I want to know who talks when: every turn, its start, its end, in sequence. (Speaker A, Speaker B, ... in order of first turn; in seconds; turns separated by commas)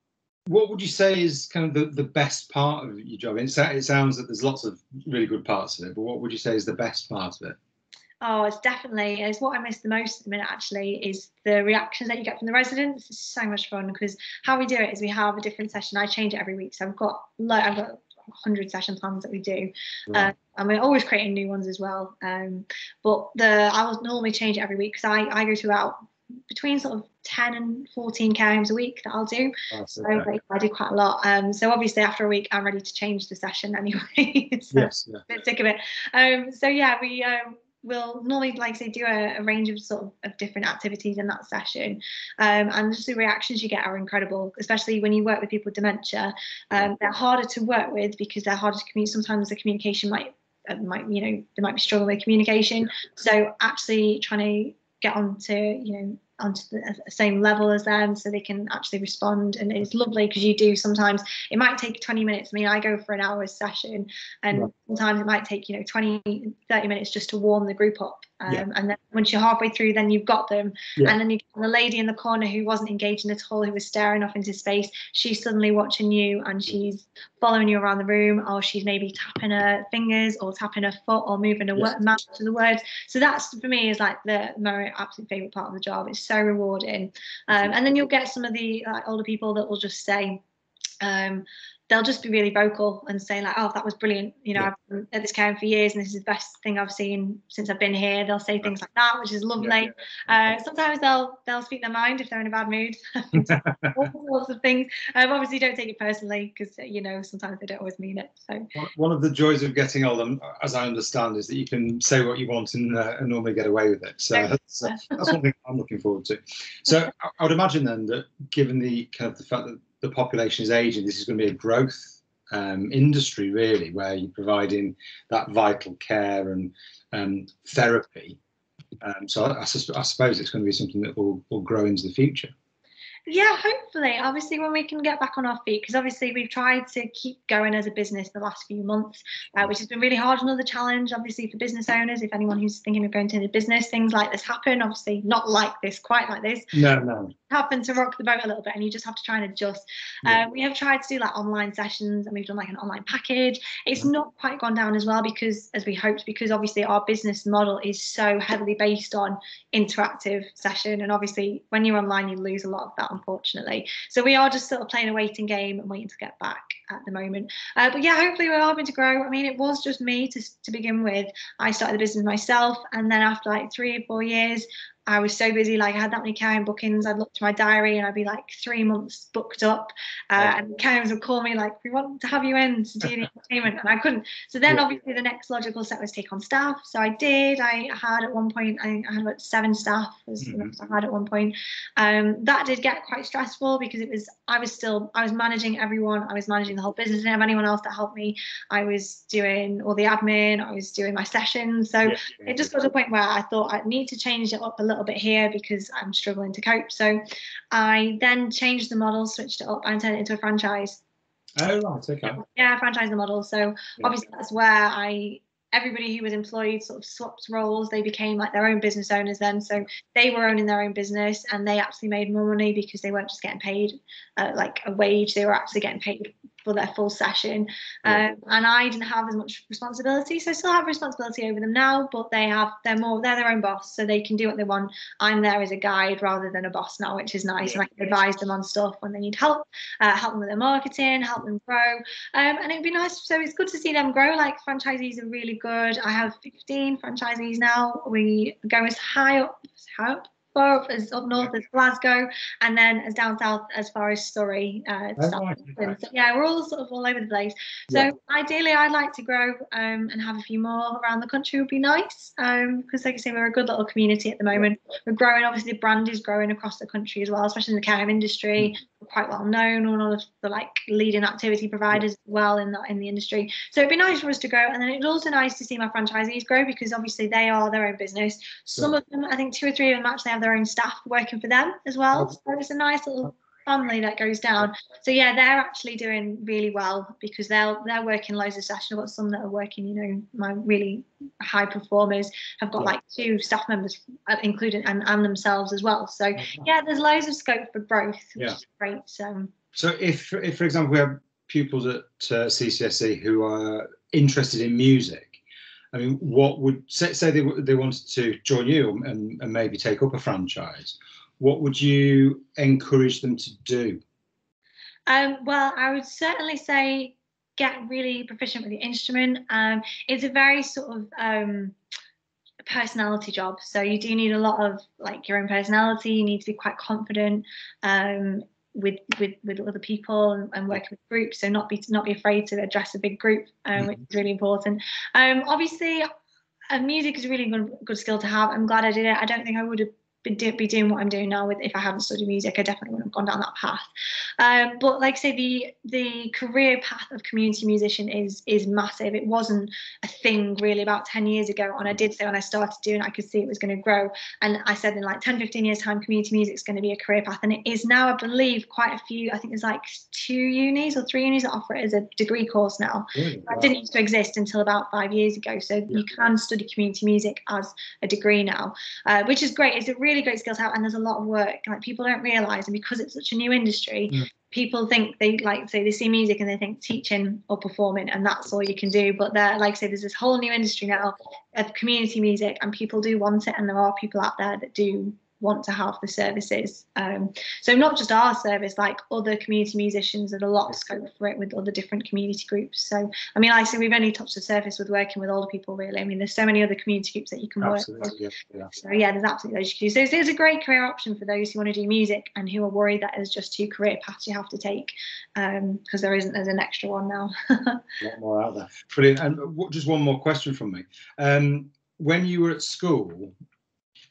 Speaker A: 0.5-7.6, Speaker B: 8.2-26.0, Speaker B: 26.5-90.4, Speaker A: 29.7-30.3, Speaker A: 34.7-35.2, Speaker B: 91.0-108.7, Speaker A: 99.6-99.9, Speaker A: 103.4-103.9, Speaker A: 108.8-128.4, Speaker B: 114.3-115.3, Speaker A: 129.0-132.5, Speaker B: 133.3-146.7, Speaker A: 146.7-147.3, Speaker B: 147.5-211.0, Speaker A: 190.4-190.7, Speaker A: 202.0-202.6, Speaker A: 211.6-212.4, Speaker B: 212.3-299.5, Speaker A: 255.2-256.0, Speaker A: 296.4-296.7, Speaker A: 299.8-305.4, Speaker A: 305.9-314.0, Speaker B: 315.1-321.8, Speaker B: 322.7-336.1, Speaker B: 336.7-343.8, Speaker B: 344.4-407.9, Speaker A: 363.1-363.7, Speaker A: 397.6-398.7, Speaker A: 408.0-413.4